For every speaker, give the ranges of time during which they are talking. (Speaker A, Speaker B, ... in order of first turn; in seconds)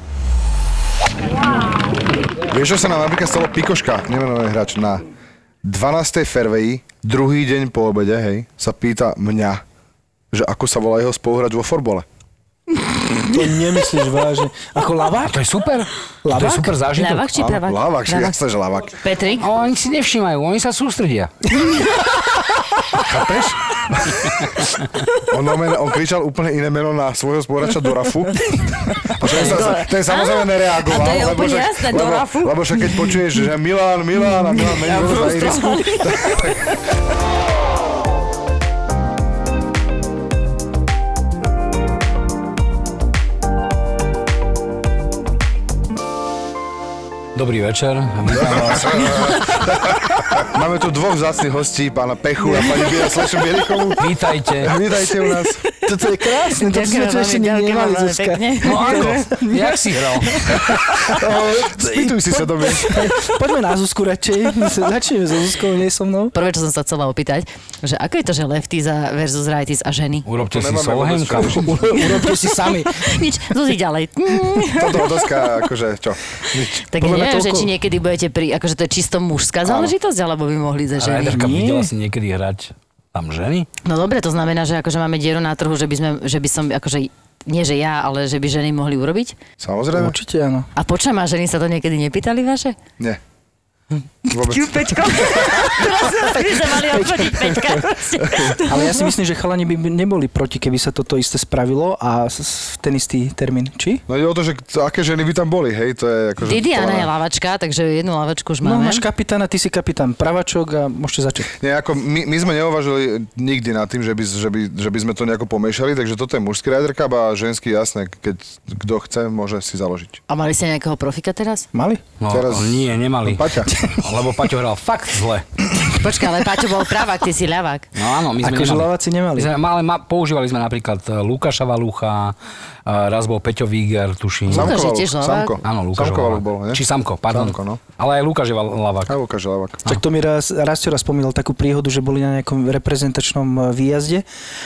Speaker A: 2.4-5.0, 5.6-9.6, 10.3-12.1, 17.4-19.0, 23.1-24.1, 25.3-36.7, 48.3-54.0, 54.6-55.7, 61.0-63.1, 70.4-72.0, 74.7-76.9, 79.6-79.9, 89.6-90.2, 94.3-95.7, 98.2-98.6, 104.1-107.1, 111.6-120.2, 122.3-123.7, 134.5-137.8, 139.1-139.9
Speaker B: 13.3-15.3, 16.2-16.8, 55.8-59.3, 60.5-66.3, 71.6-73.2, 77.0-77.7, 81.3-81.9, 89.9-90.7, 96.8-97.9, 98.7-104.0, 108.6-111.5, 121.7-122.0, 128.4-129.5, 139.9-144.2
Speaker C: 15.2-17.4, 19.4-21.3, 23.1-23.5, 47.4-49.2, 54.0-54.8, 58.6-60.6, 70.3-72.1, 81.0-83.7, 122.2-125.5, 128.0-132.3, 132.9-134.8, 135.6-139.2
Speaker D: 17.0-18.4, 19.0-19.5, 29.2-33.1, 34.5-36.5, 56.5-59.7, 60.3-60.6, 66.3-70.3, 72.0-75.6, 76.8-81.4, 83.8-89.3, 90.8-92.8, 94.2-99.1, 106.4-109.0, 120.3-121.7, 125.9-127.9, 134.5-135.6